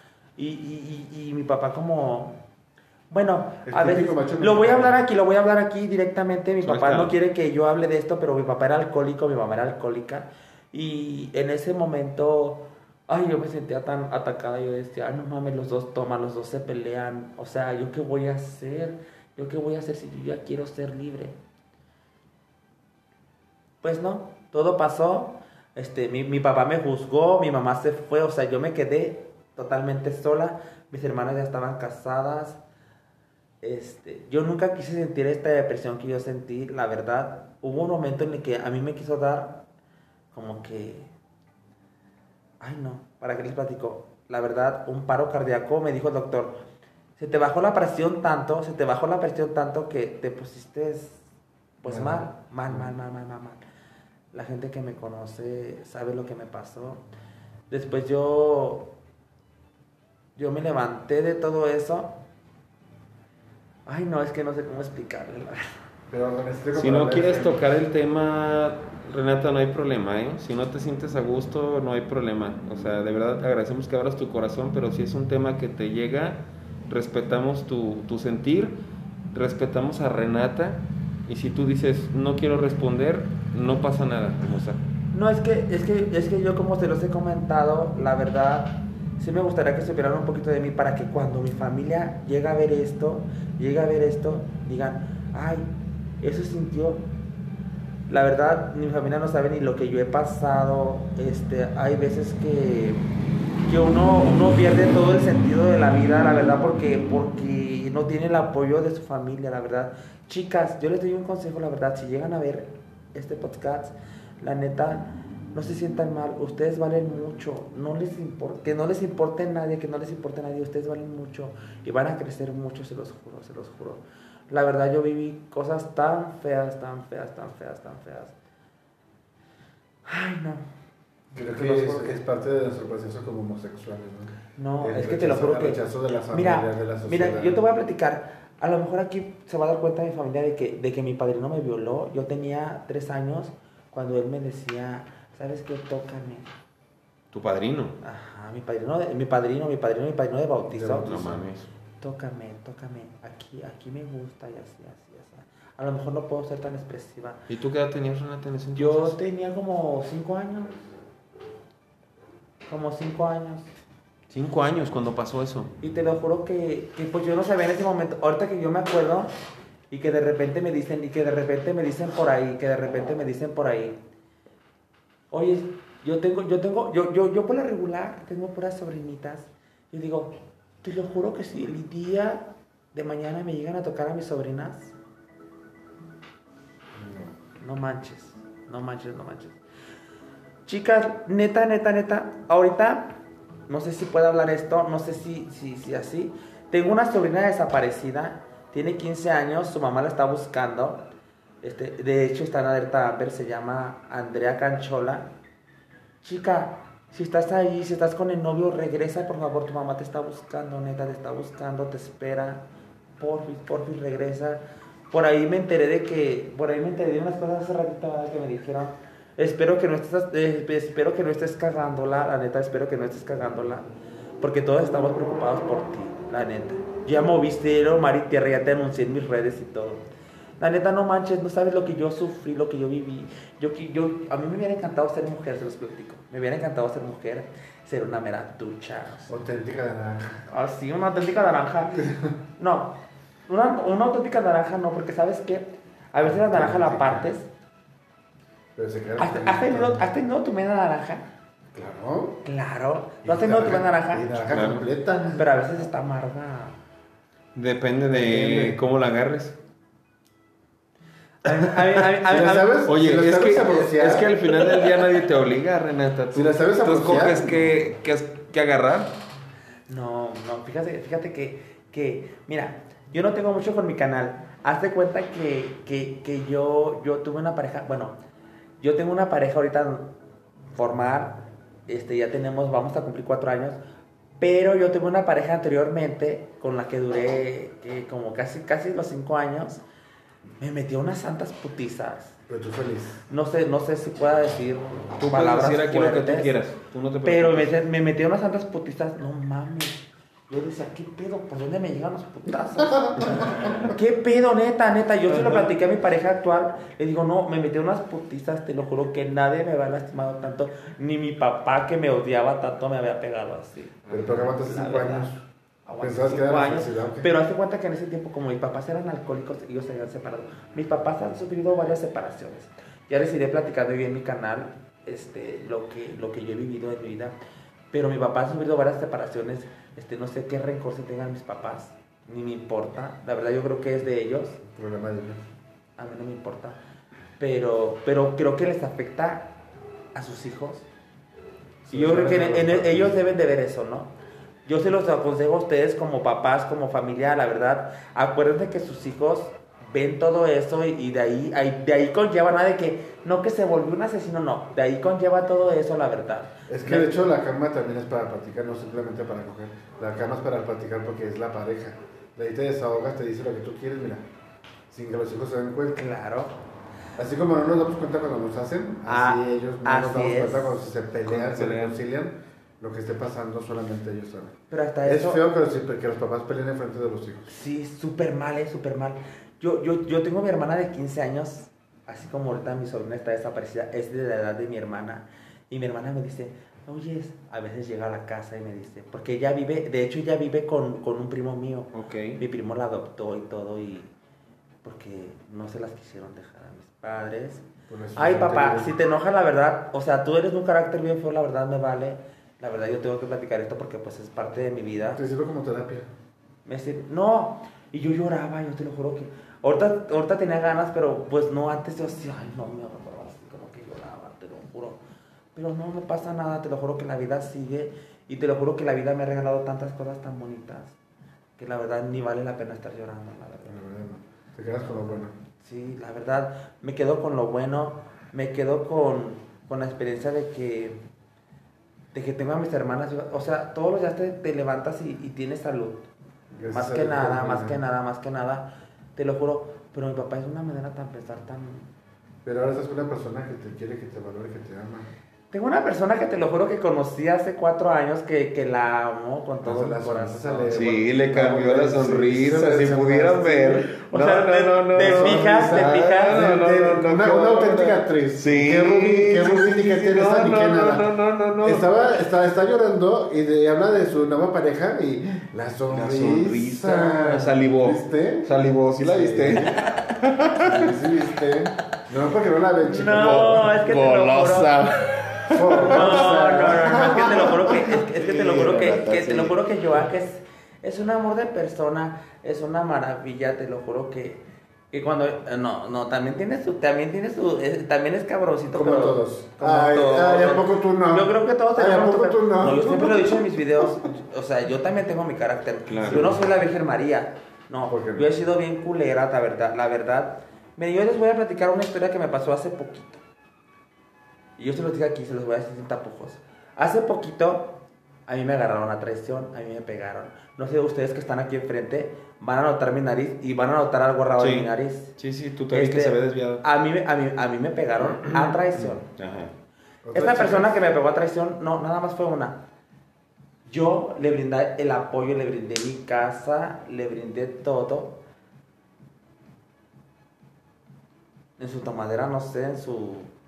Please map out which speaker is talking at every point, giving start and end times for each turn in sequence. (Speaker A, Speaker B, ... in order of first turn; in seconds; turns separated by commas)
Speaker A: 0.4-2.4, Speaker A: 3.1-21.4, Speaker B: 3.7-5.0, Speaker C: 6.6-7.2, Speaker A: 23.8-32.6, Speaker A: 33.6-39.6, Speaker A: 40.3-41.1, Speaker A: 42.6-46.6, Speaker A: 47.2-51.2, Speaker A: 51.8-53.6, Speaker B: 51.9-52.9, Speaker A: 54.3-57.0, Speaker A: 57.7-58.9, Speaker A: 60.4-62.1, Speaker A: 63.9-65.6, Speaker B: 66.1-67.6, Speaker C: 66.8-78.8, Speaker C: 79.3-84.8, Speaker A: 85.1-95.7, Speaker A: 96.2-97.0, Speaker A: 98.1-103.1, Speaker A: 103.6-128.3, Speaker A: 130.1-130.7, Speaker B: 131.3-137.6, Speaker A: 131.5-132.1, Speaker A: 134.6-146.5, Speaker C: 147.3-148.0, Speaker A: 148.0-151.1, Speaker B: 150.7-151.6, Speaker C: 151.0-151.6, Speaker A: 152.0-157.4, Speaker C: 157.5-159.2, Speaker A: 158.8-160.8, Speaker A: 162.7-163.7, Speaker C: 164.3-165.7, Speaker A: 165.8-169.3, Speaker A: 169.9-174.0, Speaker A: 175.3-184.9, Speaker B: 187.0-187.3, Speaker A: 187.6-189.6, Speaker A: 190.7-201.0, Speaker A: 201.6-205.3, Speaker A: 206.2-212.6, Speaker A: 213.2-223.9, Speaker A: 224.4-230.0, Speaker A: 230.6-239.3, Speaker B: 239.3-240.4, Speaker A: 240.5-243.0, Speaker A: 243.5-247.5, Speaker B: 246.2-247.3, Speaker B: 248.8-250.1, Speaker A: 249.2-251.2, Speaker B: 251.7-252.4, Speaker A: 252.4-254.3, Speaker B: 253.2-255.4, Speaker C: 254.5-254.9, Speaker A: 255.4-256.8, Speaker C: 257.6-259.6, Speaker B: 258.1-258.8, Speaker A: 261.4-262.9, Speaker B: 262.3-264.3, Speaker C: 262.9-269.1, Speaker B: 266.3-267.7, Speaker A: 269.9-278.1, Speaker A: 278.8-280.1, Speaker A: 280.7-283.8, Speaker A: 284.4-289.8, Speaker A: 290.6-292.4, Speaker B: 292.5-293.2, Speaker A: 293.3-296.5, Speaker C: 295.2-297.7, Speaker A: 297.2-315.3, Speaker B: 302.9-303.7, Speaker C: 305.3-305.7, Speaker C: 314.1-314.4, Speaker B: 314.1-315.4, Speaker A: 315.9-327.4, Speaker B: 316.0-317.3, Speaker A: 327.9-334.6, Speaker B: 334.7-335.4, Speaker A: 336.0-336.8, Speaker A: 337.4-339.6, Speaker A: 340.1-340.9, Speaker B: 341.9-343.2, Speaker A: 341.9-344.1, Speaker A: 344.7-357.1, Speaker B: 356.7-364.2, Speaker B: 364.9-366.0, Speaker A: 365.9-366.6, Speaker B: 367.2-377.5, Speaker A: 369.1-370.9, Speaker C: 371.3-372.0, Speaker A: 374.7-375.4, Speaker A: 377.5-394.1, Speaker C: 391.9-392.4, Speaker A: 394.8-405.2, Speaker B: 397.9-398.9, Speaker B: 405.1-406.1, Speaker A: 406.6-415.0, Speaker A: 415.6-420.9, Speaker A: 421.6-423.8, Speaker B: 423.7-425.3, Speaker A: 425.1-431.0, Speaker A: 432.1-436.1, Speaker B: 436.6-437.8, Speaker A: 436.7-441.9, Speaker B: 442.4-445.1, Speaker A: 445.5-450.8, Speaker B: 449.6-453.9, Speaker C: 450.7-461.9, Speaker A: 454.0-456.4, Speaker B: 454.9-468.5, Speaker C: 465.9-470.9, Speaker B: 469.0-469.9, Speaker B: 470.6-473.5, Speaker A: 472.8-474.9, Speaker C: 473.1-476.6, Speaker B: 475.5-477.7, Speaker A: 475.7-503.2, Speaker C: 477.8-479.6, Speaker B: 488.7-493.4, Speaker C: 495.9-496.4, Speaker B: 496.1-496.4, Speaker B: 497.9-498.3, Speaker A: 504.6-515.1, Speaker C: 514.4-516.6, Speaker A: 515.7-519.0, Speaker C: 518.0-519.5, Speaker B: 520.0-520.8, Speaker A: 520.1-522.6, Speaker A: 523.7-528.2, Speaker A: 531.6-533.3